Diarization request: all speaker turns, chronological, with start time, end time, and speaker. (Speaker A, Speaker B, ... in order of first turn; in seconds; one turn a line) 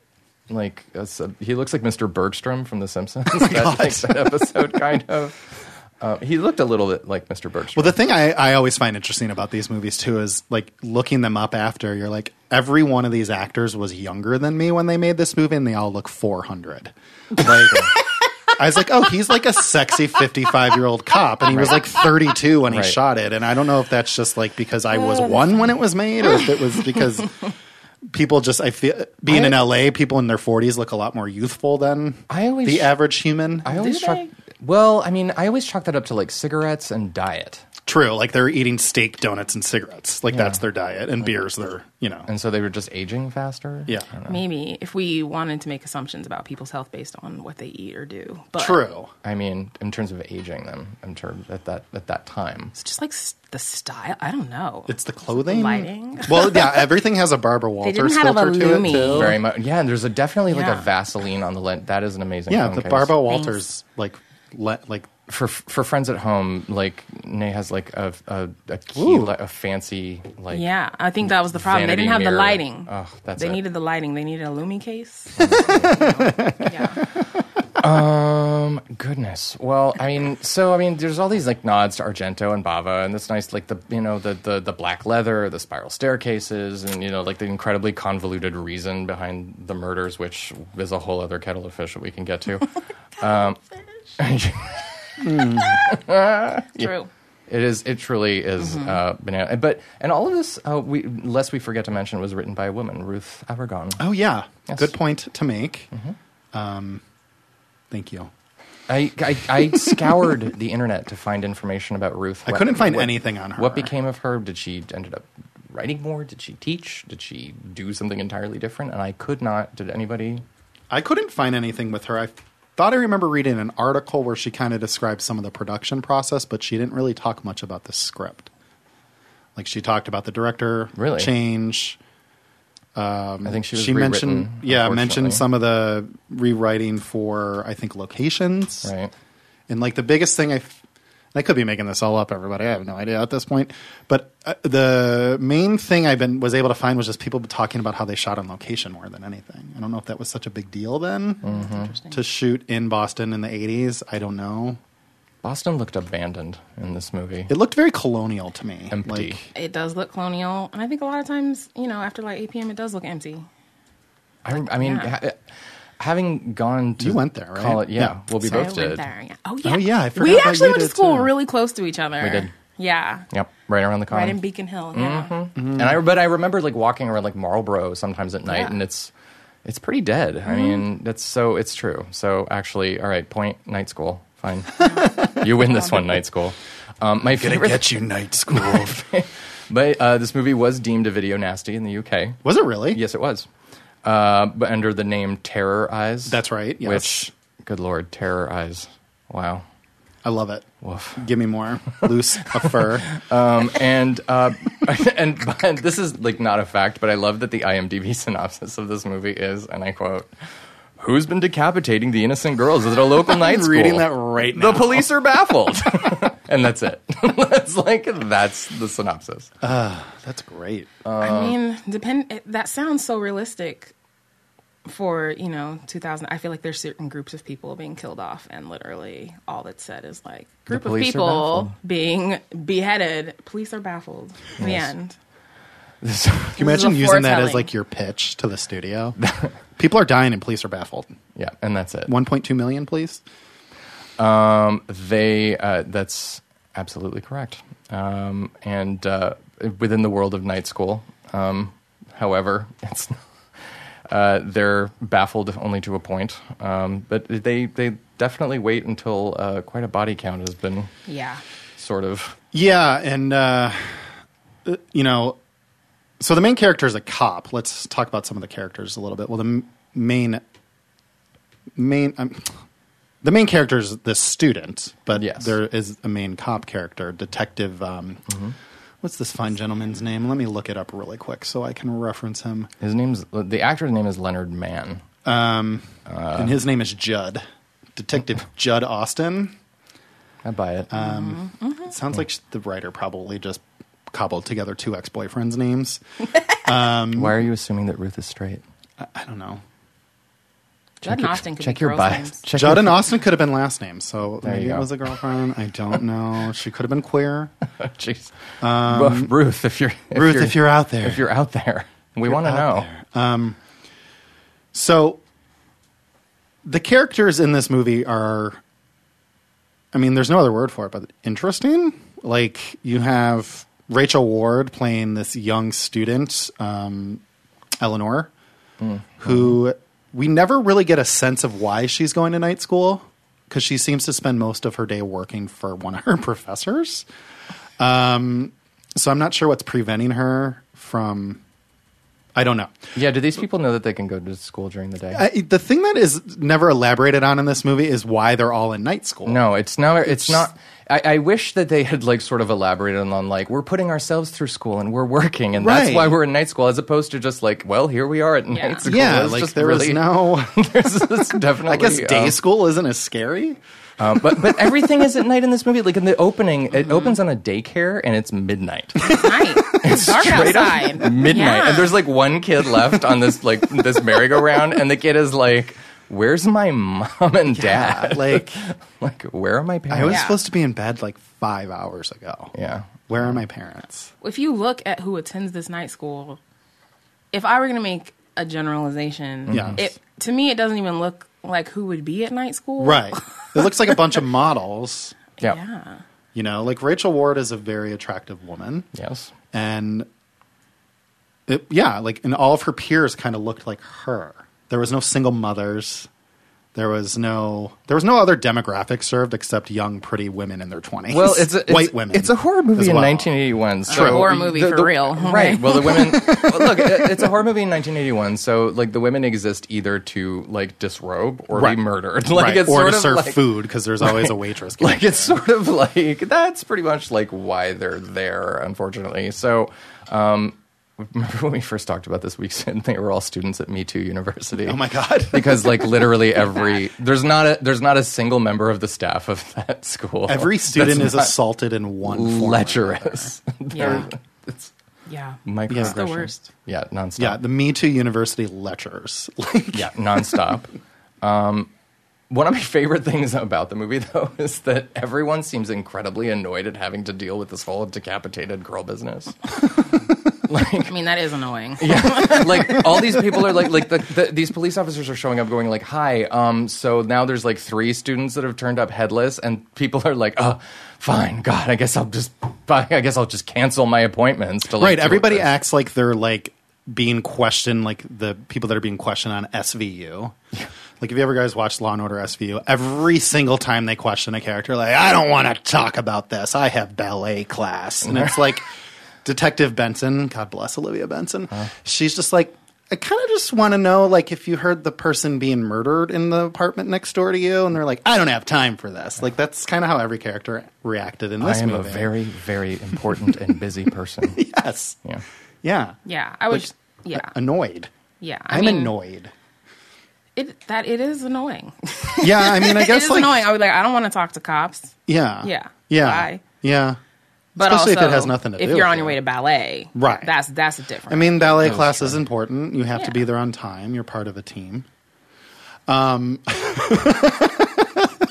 Speaker A: 0.5-8.0
Speaker B: 3.3-4.3
Speaker B: 7.7-17.9
Speaker A: 17.4-17.9
Speaker B: 18.5-27.3
Speaker A: 21.5-21.8
Speaker A: 22.7-23.0
Speaker C: 24.9-25.7
Speaker B: 28.1-33.7
Speaker A: 29.3-29.6
Speaker A: 32.3-33.0
Speaker A: 33.6-37.6
Speaker C: 33.7-34.2
Speaker B: 37.9-42.3
Speaker A: 40.3-40.6
Speaker A: 42.3-44.4
Speaker C: 44.3-48.8
Speaker B: 48.5-49.1
Speaker A: 49.2-52.7
Speaker C: 52.7-56.9
Speaker B: 54.9-59.4
Speaker C: 57.8-59.4
Speaker A: 58.8-63.1
Speaker C: 60.5-60.9
Speaker B: 62.5-65.1
Speaker C: 63.3-63.6
Speaker A: 65.3-70.7
Speaker B: 68.9-69.3
Speaker C: 70.5-77.0
Speaker A: 71.5-73.6
Speaker A: 75.4-76.0
Speaker B: 75.7-76.7
Speaker A: 77.8-93.6
Speaker A: 94.2-96.9
Speaker B: 95.2-95.8
Speaker C: 96.8-97.1
Speaker A: 97.5-104.0
Speaker C: 98.6-99.0
Speaker B: 104.0-105.9
Speaker B: 106.5-107.0
Speaker B: 107.9-108.3
Speaker A: 108.9-120.4
Speaker B: 112.5-113.9
Speaker B: 120.9-128.5
Speaker B: 129.6-132.0
Speaker A: 130.9-131.3
Speaker B: 132.9-138.9
Speaker A: 133.4-135.4
Speaker A: 138.8-139.1
Speaker B: 139.7-140.8
Speaker B: 141.3-154.8
Speaker A: 151.4-151.9
Speaker C: 151.4-152.2
Speaker A: 155.4-157.5
Speaker B: 157.5-159.5
Speaker A: 158.9-159.4
Speaker C: 159.5-163.4
Speaker A: 164.4-165.4
Speaker C: 164.6-165.1
Speaker A: 166.0-169.0
Speaker B: 167.0-168.7
Speaker C: 168.4-173.2
Speaker B: 169.6-171.3
Speaker A: 172.2-172.5
Speaker A: 173.3-174.4
Speaker C: 174.1-175.3
Speaker A: 174.9-179.1
Speaker B: 175.6-175.9
Speaker C: 178.5-178.7
Speaker A: 179.6-193.5
Speaker C: 180.5-180.8
Speaker C: 184.8-185.1
Speaker B: 185.0-185.3
Speaker C: 185.6-186.0
Speaker B: 187.3-189.0
Speaker B: 192.4-193.0
Speaker A: 194.0-199.7
Speaker B: 196.3-197.3
Speaker B: 200.2-203.2
Speaker A: 200.8-201.2
Speaker A: 202.6-210.3
Speaker A: 211.0-219.5
Speaker B: 213.3-215.1
Speaker B: 219.6-220.9
Speaker A: 221.0-221.6
Speaker C: 221.2-223.9
Speaker C: 224.8-235.2
Speaker A: 230.7-231.7
Speaker A: 234.6-234.9
Speaker A: 236.0-236.6
Speaker C: 236.6-237.7
Speaker B: 236.6-239.2
Speaker A: 239.2-239.5
Speaker B: 239.8-241.1
Speaker A: 241.3-242.1
Speaker B: 242.1-243.2
Speaker A: 244.2-253.2
Speaker A: 254.1-260.9
Speaker C: 261.1-261.4
Speaker A: 261.8-262.4
Speaker B: 262.5-264.1
Speaker B: 264.6-265.4
Speaker B: 266.2-270.4
Speaker B: 271.8-272.6
Speaker B: 273.2-278.3
Speaker A: 275.1-275.5
Speaker A: 278.3-278.6
Speaker B: 279.0-282.7
Speaker A: 282.8-285.0
Speaker B: 285.2-287.4
Speaker A: 286.1-286.6
Speaker B: 287.9-289.5
Speaker A: 290.4-290.9
Speaker B: 290.9-296.0
Speaker C: 290.9-291.9
Speaker B: 296.6-297.4
Speaker A: 297.1-298.6
Speaker B: 299.0-299.6
Speaker C: 301.0-302.4
Speaker A: 301.0-303.1
Speaker B: 302.5-307.5
Speaker A: 304.4-305.0
Speaker A: 307.8-312.9
Speaker B: 308.6-309.3
Speaker B: 310.1-311.2
Speaker B: 312.2-313.6
Speaker B: 314.7-315.2
Speaker B: 316.6-318.6
Speaker B: 319.9-327.2
Speaker B: 327.8-328.3
Speaker A: 328.8-329.6
Speaker B: 329.2-337.1
Speaker B: 337.8-341.4
Speaker B: 342.3-342.8
Speaker A: 342.9-345.3
Speaker B: 345.1-349.4
Speaker A: 349.2-362.4
Speaker B: 350.0-350.4
Speaker B: 355.6-356.2
Speaker C: 358.5-358.8
Speaker B: 358.8-360.7
Speaker B: 361.6-363.6
Speaker A: 364.0-369.2
Speaker C: 369.0-371.9
Speaker A: 369.8-380.2
Speaker B: 377.5-378.5
Speaker B: 379.9-382.5
Speaker C: 380.1-380.4
Speaker A: 382.5-383.4
Speaker B: 383.1-384.1
Speaker C: 384.2-386.4
Speaker C: 387.3-393.9
Speaker A: 389.5-389.8
Speaker B: 389.5-389.8
Speaker B: 392.8-395.1
Speaker C: 395.4-396.0
Speaker B: 396.3-398.9
Speaker A: 398.9-399.3
Speaker B: 399.5-400.1
Speaker B: 401.5-406.1
Speaker B: 406.7-413.3
Speaker A: 411.1-423.4
Speaker B: 413.9-414.4
Speaker C: 413.9-416.0
Speaker B: 415.8-417.3
Speaker B: 421.5-421.8
Speaker B: 422.3-425.4
Speaker A: 424.0-441.3
Speaker B: 434.6-436.3
Speaker B: 440.2-444.1
Speaker A: 442.0-444.7
Speaker C: 443.7-444.1
Speaker C: 445.1-446.4
Speaker A: 445.4-447.4
Speaker B: 445.7-446.3
Speaker B: 447.2-450.4
Speaker A: 449.7-451.7
Speaker A: 452.3-459.6
Speaker A: 460.4-460.9
Speaker C: 460.9-462.9
Speaker A: 461.8-475.5
Speaker B: 474.7-480.3
Speaker B: 481.0-488.6
Speaker A: 488.1-488.3
Speaker B: 489.2-502.1
Speaker A: 501.4-504.4
Speaker B: 503.1-503.4
Speaker B: 504.3-505.0
Speaker B: 505.6-506.0
Speaker C: 506.1-507.3
Speaker B: 506.5-507.9
Speaker C: 508.2-508.9
Speaker B: 508.5-509.3
Speaker C: 510.4-516.4
Speaker B: 512.2-513.5
Speaker B: 515.1-517.0
Speaker B: 517.5-519.2
Speaker C: 517.5-521.8
Speaker B: 519.9-520.3
Speaker B: 521.1-524.9
Speaker A: 521.6-522.2
Speaker B: 525.9-528.1